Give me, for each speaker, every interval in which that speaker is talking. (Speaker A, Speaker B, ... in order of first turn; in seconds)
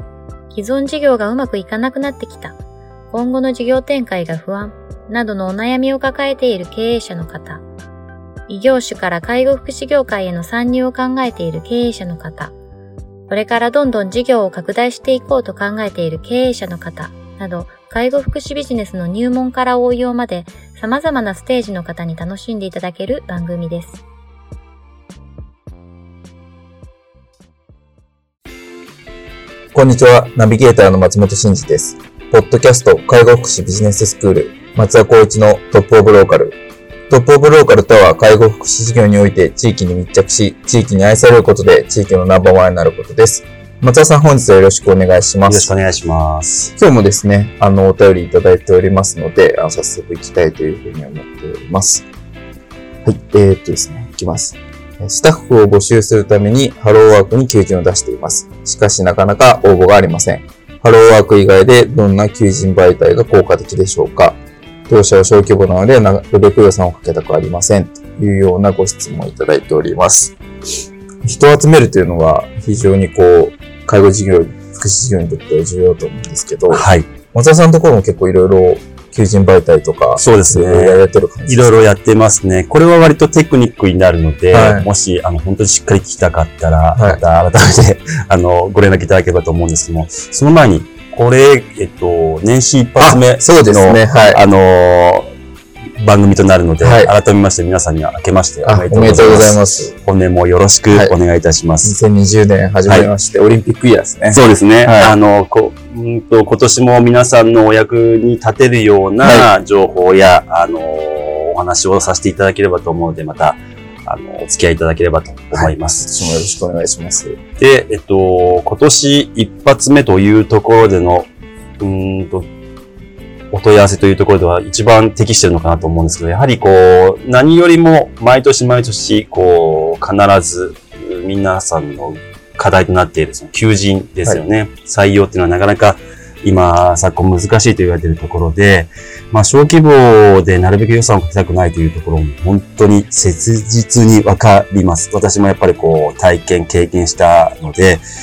Speaker A: 0.5-2.6, 3.1-7.6, 8.5-12.5, 13.3-24.0
Speaker B: 29.7-36.6, 37.1-45.7, 46.8-52.1, 53.0-70.4, 71.2-81.8, 84.5-84.9, 87.0-87.2, 93.0-94.4, 96.8-97.1, 98.6-99.9, 101.8-105.2, 109.2-109.5, 115.5-117.4
Speaker C: 45.5-46.7, 76.7-77.1, 80.2-95.3, 96.0-102.0, 102.8-103.1, 104.3-116.1, 117.6-122.5, 123.5-148.0